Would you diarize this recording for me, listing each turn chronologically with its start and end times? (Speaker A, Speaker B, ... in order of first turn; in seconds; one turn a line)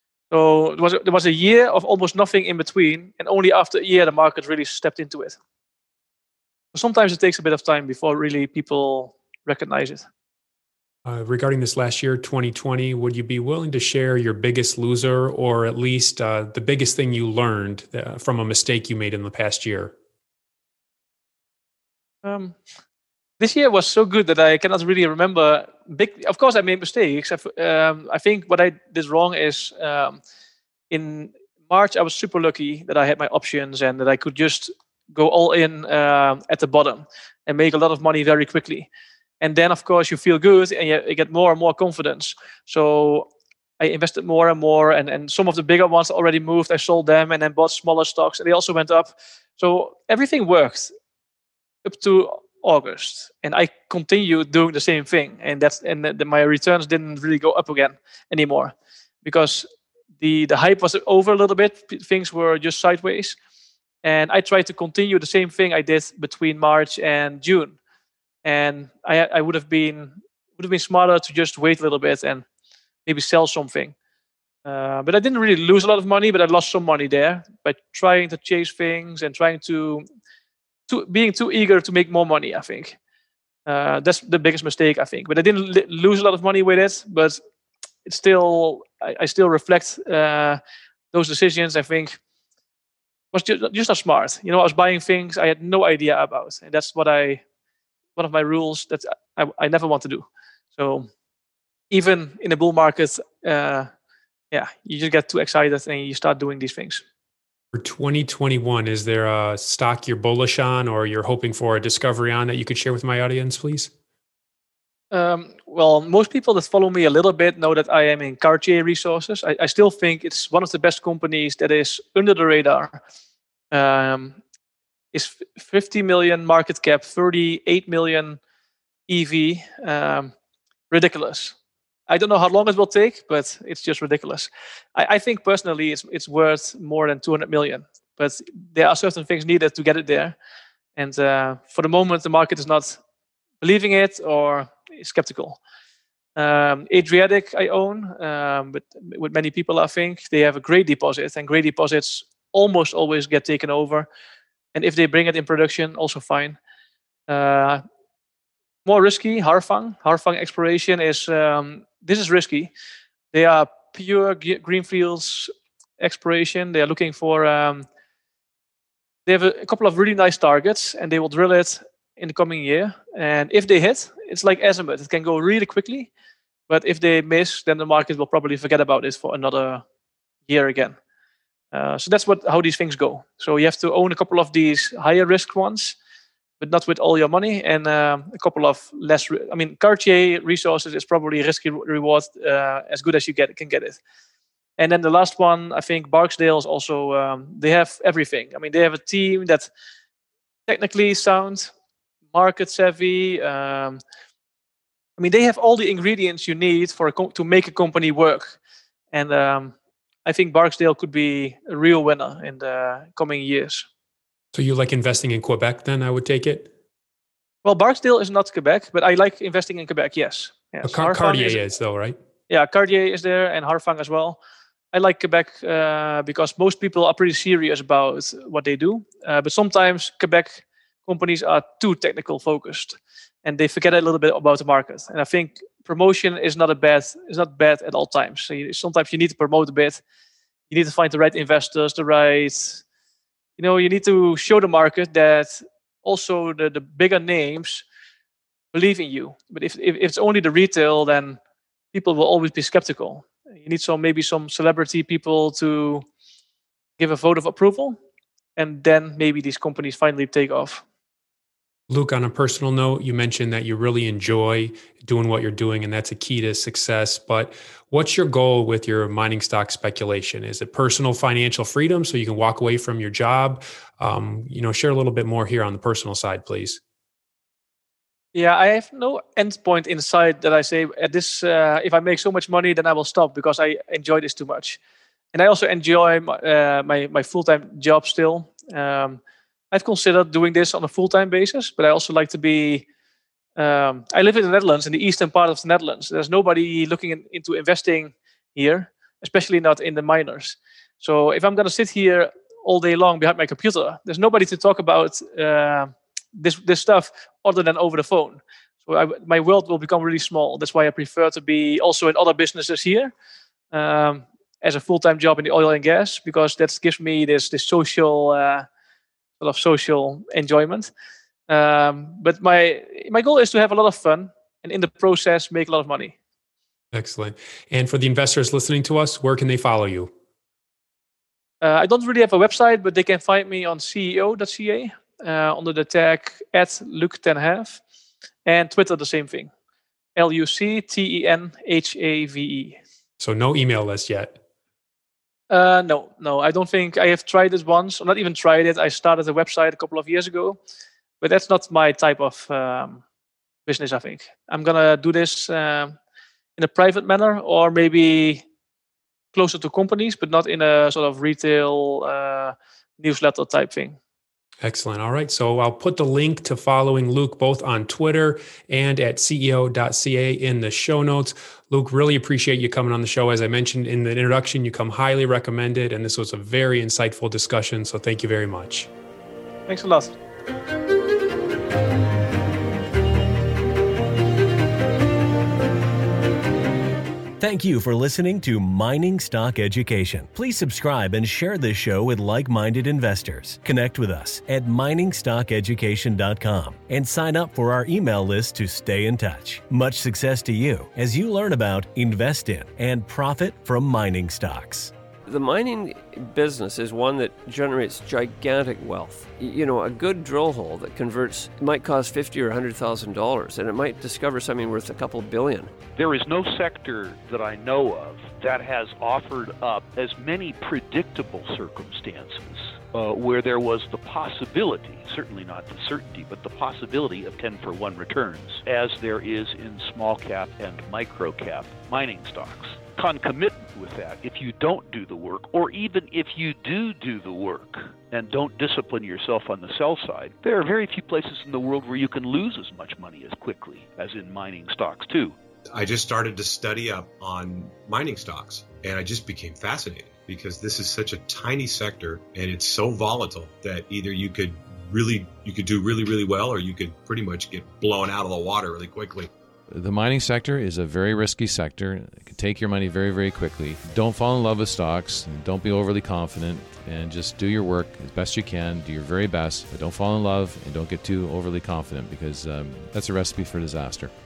Speaker A: 0.3-5.4
Speaker A: 6.7-10.1
Speaker B: 11.1-19.9
Speaker A: 22.2-22.6
Speaker A: 23.4-30.2
Speaker A: 30.9-38.9
Speaker A: 39.4-50.9
Speaker A: 51.9-59.7
Speaker A: 60.2-63.4
Speaker A: 64.0-67.8
Speaker A: 68.5-72.5
Speaker A: 73.1-74.0
Speaker A: 74.7-80.0
Speaker A: 80.9-83.0
Speaker A: 83.7-87.4
Speaker A: 88.0-90.6
Speaker A: 91.1-92.2
Speaker A: 93.3-97.4
Speaker A: 98.2-101.1
Speaker A: 101.9-103.9
Speaker A: 104.5-107.0
Speaker B: 107.7-113.9
Speaker A: 115.1-123.0
Speaker A: 123.7-124.4
Speaker A: 125.1-128.4
Speaker A: 129.1-130.3
Speaker A: 130.9-131.6
Speaker A: 132.1-140.4
Speaker A: 141.0-143.0
Speaker A: 143.6-145.6
Speaker A: 146.4-154.1
Speaker A: 154.7-156.6
Speaker A: 157.3-157.8
Speaker A: 158.8-162.7
Speaker A: 163.3-167.9
Speaker A: 169.3-176.1
Speaker A: 176.7-179.8
Speaker A: 180.5-181.0
Speaker A: 181.7-186.0
Speaker A: 186.6-194.0
Speaker A: 194.8-199.7
Speaker A: 200.7-201.7
Speaker A: 202.3-204.0
Speaker A: 205.2-208.6
Speaker A: 209.1-209.7
Speaker A: 210.3-213.9
Speaker B: 214.5-216.7
Speaker A: 217.6-221.6
Speaker B: 220.8-222.2
Speaker A: 222.5-224.4
Speaker A: 224.9-240.0
Speaker A: 240.7-242.8
Speaker A: 243.6-247.8
Speaker A: 248.7-251.4
Speaker A: 251.9-256.0
Speaker A: 257.0-258.0
Speaker A: 258.6-260.8
Speaker B: 261.9-276.8
Speaker A: 278.3-284.8
Speaker A: 285.3-289.2
Speaker A: 289.7-292.9
Speaker A: 293.6-313.1
Speaker A: 313.7-318.7
Speaker A: 319.4-320.9
Speaker A: 321.5-326.1
Speaker B: 326.9-330.1
Speaker A: 331.6-337.8
Speaker A: 338.5-339.5
Speaker A: 340.2-342.8
Speaker B: 343.2-344.4
Speaker A: 345.5-350.6
Speaker A: 351.2-353.0
Speaker A: 353.7-355.9
Speaker A: 356.6-358.4
Speaker A: 359.3-364.0
Speaker B: 364.6-378.9
Speaker A: 379.7-380.1
Speaker C: 387.4-404.9
Speaker D: 405.3-415.7
Speaker E: 416.0-445.4
Speaker F: 445.7-459.3
Speaker G: 459.7-474.1